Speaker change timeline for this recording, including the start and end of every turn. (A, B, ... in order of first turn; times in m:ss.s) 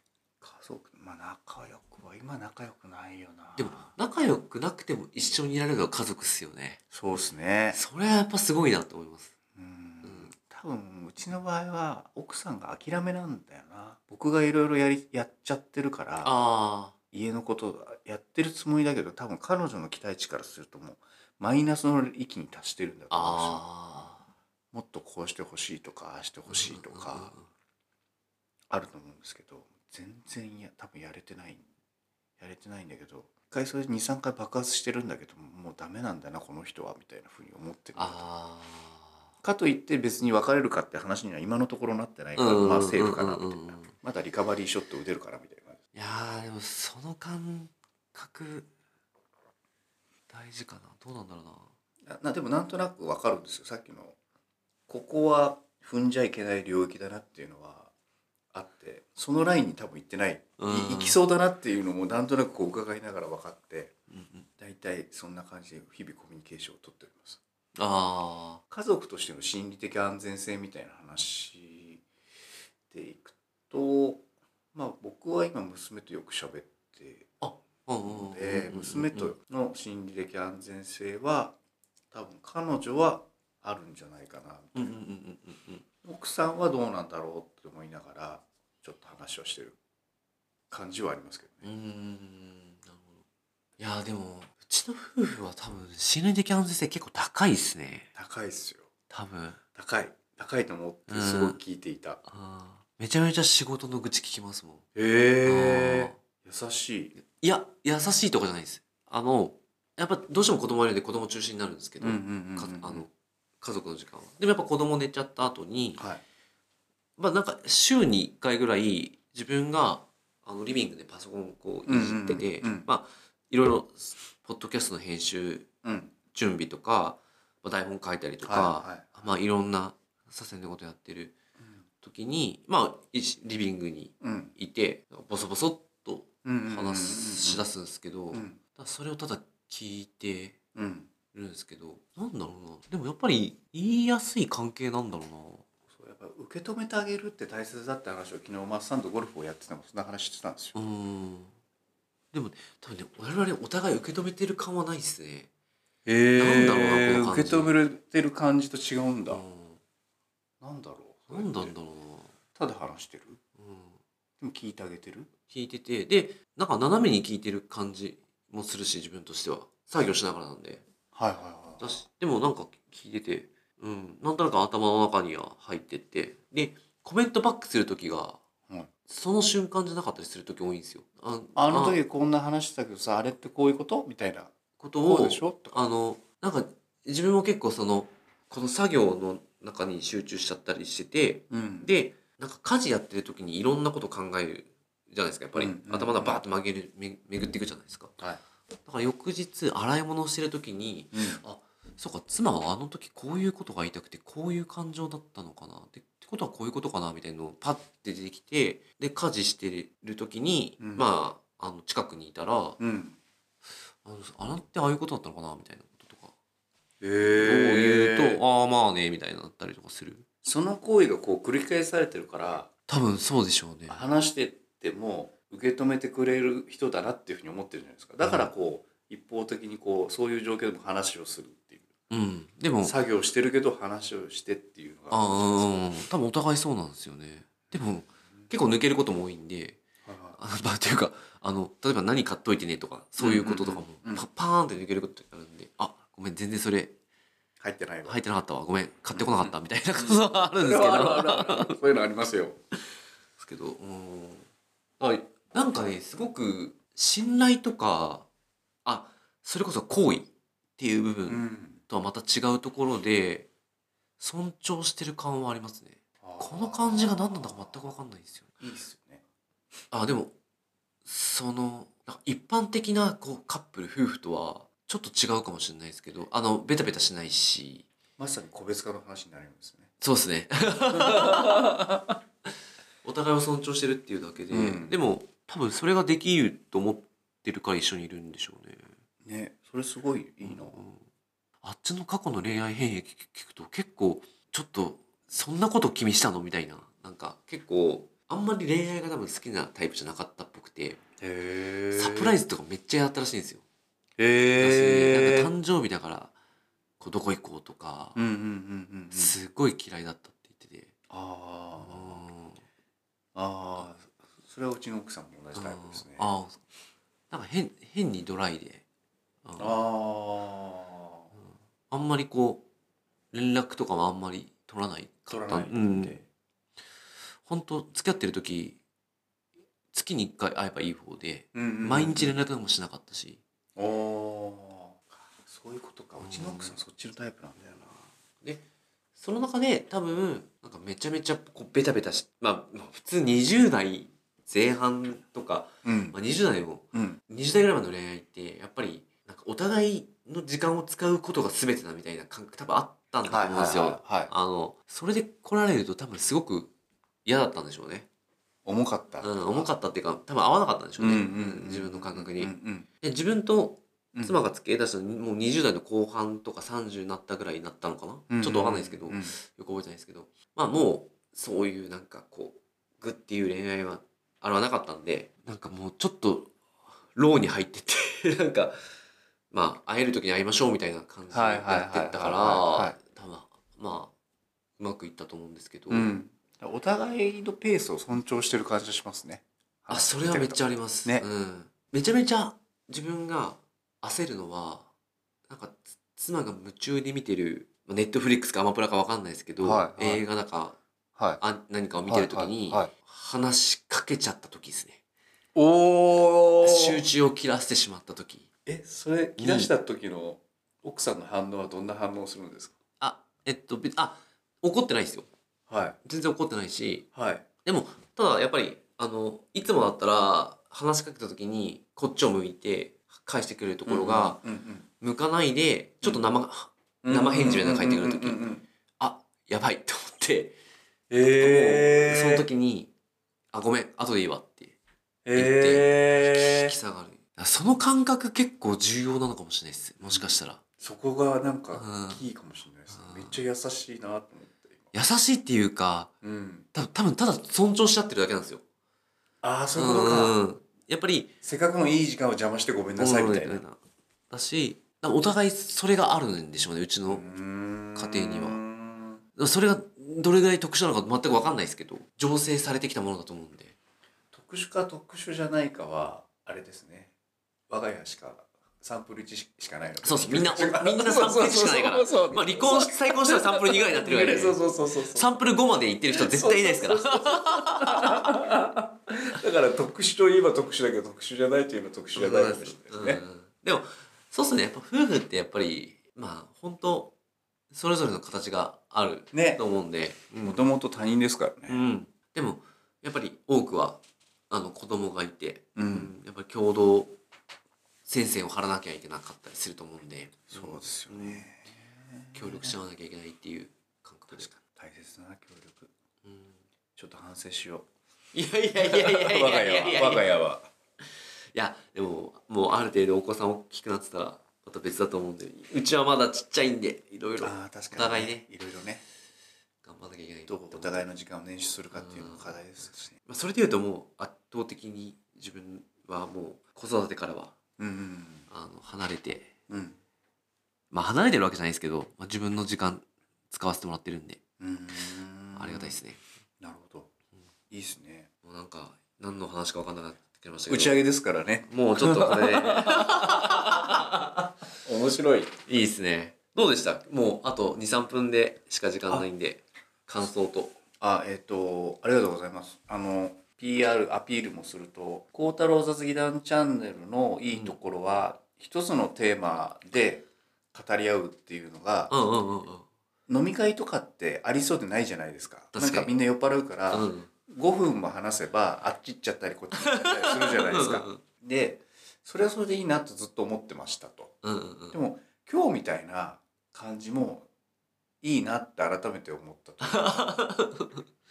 0:00.4-0:03.9 A
0:03.6-0:06.8 B
0:06.9-0:07.8 A
0:07.7-0:09.3 B
0:09.5-0:16.3 A
0:10.0-0:10.3 B
0:16.2-0:16.9 B
0:17.1-0:23.6 A
0:23.1-0:24.2 B
0:24.7-0:27.3 A
0:26.5-0:27.5 B
0:28.7-0:31.6 A
0:32.4-0:38.2 A
0:38.0-0:39.2 B
0:39.4-0:45.8 A
0:42.4-0:43.9 B
0:45.9-0:48.7 B
0:50.3-0:51.7 B
0:52.0-0:54.2 A
0:54.9-0:57.9 A
0:58.5-1:03.9 A
1:00.6-1:01.2 B
1:04.1-1:04.4 B
1:04.6-1:07.4 A
1:07.8-1:08.6 B
1:08.7-1:12.0 A
1:12.9-1:17.3 A
1:17.4-1:19.3 B
1:18.0-1:21.6 A
1:22.1-1:25.0 A
1:24.7-1:25.8 B
1:26.0-1:29.8 A
1:30.7-1:31.7 A
1:31.6-1:33.2 B
1:33.8-1:38.1 B
1:38.1-1:38.9 A
1:39.1-1:39.6 B
1:39.8-1:42.2 A
1:41.1-1:41.6 B
1:42.2-1:44.8 B
1:44.9-1:47.1 A
1:45.4-1:46.2 B
1:47.2-1:56.0 B
1:52.0-1:53.0 A
1:56.0-1:56.2 A
1:57.2-2:05.7 B
2:01.9-2:02.9 A
2:05.8-2:06.1 A
2:06.3-2:11.4 B
2:08.4-2:09.1 A
2:12.0-2:20.6 B
2:14.2-2:14.5 A
2:16.4-2:17.6 A
2:18.3-2:18.6 A
2:20.7-2:21.1 A
2:21.3-2:25.6 B
2:25.9-2:30.8 A
2:30.7-2:31.5 B
2:32.3-2:35.5 B
2:36.0-2:39.4 A
2:36.3-2:37.8 B
2:39.3-2:39.8 B
2:40.6-2:41.7 A
2:41.3-2:42.3 B
2:42.6-2:43.4 A
2:43.6-2:44.0 B
2:44.4-2:45.3 A
2:45.5-2:50.8 B
2:51.1-2:52.0 A
2:51.8-2:58.4 B
2:59.1-3:02.0 B
3:01.6-3:05.9 A
3:04.8-3:18.2 B
3:11.5-3:11.9 A
3:15.6-3:16.4 A
3:18.8-3:32.8 B
3:21.1-3:21.4 A
3:30.8-3:31.0 A
3:32.8-3:33.2 A
3:34.0-3:36.3 B
3:37.0-3:38.4 A
3:37.2-3:40.2 B
3:40.4-3:42.7 A
3:42.9-3:44.0 B
3:43.9-3:51.9 A
3:48.2-3:48.5 B
3:52.1-3:53.0 B
3:52.8-3:55.8 A
3:55.1-3:59.8 B
4:00.0-4:00.4 A
4:00.4-4:07.0 B
4:03.2-4:04.2 A
4:07.6-4:08.2 A
4:08.0-4:11.8 B
4:09.1-4:12.6 A
4:13.4-4:14.4 B
4:15.0-4:18.3 B
4:18.8-4:23.5 B
4:21.3-4:21.8 A
4:24.2-4:28.5 B
4:26.2-4:27.8 A
4:28.6-4:29.2 A
4:29.9-4:30.3 B
4:31.0-4:37.9 B
4:38.2-4:39.9 A
4:40.0-4:41.8 B
4:40.9-4:42.2 A
4:43.0-4:48.9 B
4:44.5-4:45.0 A
4:49.2-4:50.8 A
4:50.4-4:51.0 B
4:51.6-5:01.0 B
5:01.2-5:02.4 A
5:01.9-5:03.6 B
5:04.2-5:05.5 A
5:04.6-5:06.3 B
5:07.0-5:08.2 B
5:08.1-5:09.4 A
5:09.1-5:10.9 B
5:11.1-5:12.2 A
5:11.8-5:12.6 B
5:13.3-5:16.3 A
5:15.5-5:16.6 B
5:17.3-5:18.8 B
5:19.4-5:19.8 B
5:19.6-5:21.3 A
5:21.9-5:22.6 B
5:23.3-5:26.2 B
5:25.3-5:26.2 A
5:27.4-5:28.8 B
5:29.9-5:33.4 B
5:31.5-5:32.3 A
5:33.8-5:38.0 A
5:36.2-5:36.8 B
5:39.2-5:56.7 B
5:45.8-5:46.2 A
5:46.9-5:47.2 A
5:53.3-5:54.3 A
5:57.2-5:58.1 B
5:58.6-5:59.7 A
5:59.2-6:16.5 B
6:01.0-6:02.9 A
6:08.3-6:09.3 A
6:17.1-6:18.7 B
6:19.5-6:24.1 B
6:21.3-6:23.0 A
6:24.8-6:26.1 B
6:25.9-6:31.2 A
6:29.9-6:34.9 B
6:35.5-6:40.8 B
6:39.6-6:40.2 A
6:41.2-6:41.4 A
6:41.4-6:45.0 B
6:42.1-6:42.9 A
6:45.5-6:47.0 A
6:46.6-6:48.5 B
6:48.6-6:52.7 A
6:49.4-6:49.7 B
6:53.0-6:55.3 B
6:55.7-6:56.0 A
6:56.0-6:57.1 B
6:57.1-6:57.4 A
6:57.6-7:04.4 B
7:03.9-7:04.8 A
7:05.0-7:08.4 B
7:07.0-7:08.6 A
7:09.0-7:10.6 B
7:11.1-7:12.5 A
7:11.2-7:12.9 B
7:13.5-7:14.8 B
7:15.2-7:16.7 A
7:15.3-7:20.6 B
7:20.1-7:24.9 A
7:21.7-7:22.2 B
7:22.9-7:23.4 B
7:24.9-7:26.1 B
7:26.2-7:26.7 A
7:26.7-7:28.6 B
7:29.4-7:30.4 A
7:29.7-7:31.3 B
7:31.4-7:33.6 A
7:33.0-7:33.8 B
7:34.3-7:37.2 B
7:37.1-7:39.2 A
7:37.9-7:38.6 B
7:39.4-7:43.8 B
7:44.3-7:47.1 A
7:47.7-7:55.3 A
7:50.0-7:54.6 B
7:55.1-7:58.4 B
7:56.1-8:03.2 A
8:02.2-8:07.1 B
8:07.7-8:10.7 B
8:09.3-8:09.6 A
8:10.4-8:11.8 A
8:11.7-8:17.2 B
8:15.8-8:16.1 A
8:18.0-8:21.4 B
8:20.5-8:22.8 A
8:22.3-8:24.6 B
8:24.3-8:25.9 A
8:26.2-8:26.5 B
8:27.0-8:27.9 A
8:28.3-8:30.3 B
8:28.7-8:30.7 A
8:31.5-8:38.5 B
8:37.4-8:39.0 A
8:39.8-8:41.0 B
8:40.5-8:43.1 A
8:41.9-8:42.6 B
8:43.2-8:47.5 B
8:47.8-8:48.5 A
8:48.5-8:49.5 B
8:49.7-8:50.0 A
8:50.9-8:54.4 B
8:54.6-8:56.0 A
8:55.5-8:56.2 B
8:56.6-8:57.1 A
8:57.7-8:58.3 A
8:58.4-9:01.0 B
9:00.7-9:05.5 A
9:01.7-9:04.1 B
9:05.7-9:10.8 B
9:11.0-9:22.1 A
9:22.1-9:22.8 B
9:23.3-9:34.4 A
9:25.7-9:26.1 B
9:26.9-9:27.3 B
9:29.8-9:31.2 B
9:34.4-9:35.0 B
9:34.9-9:37.5 A
9:38.2-9:40.4 A
9:39.8-9:41.0 B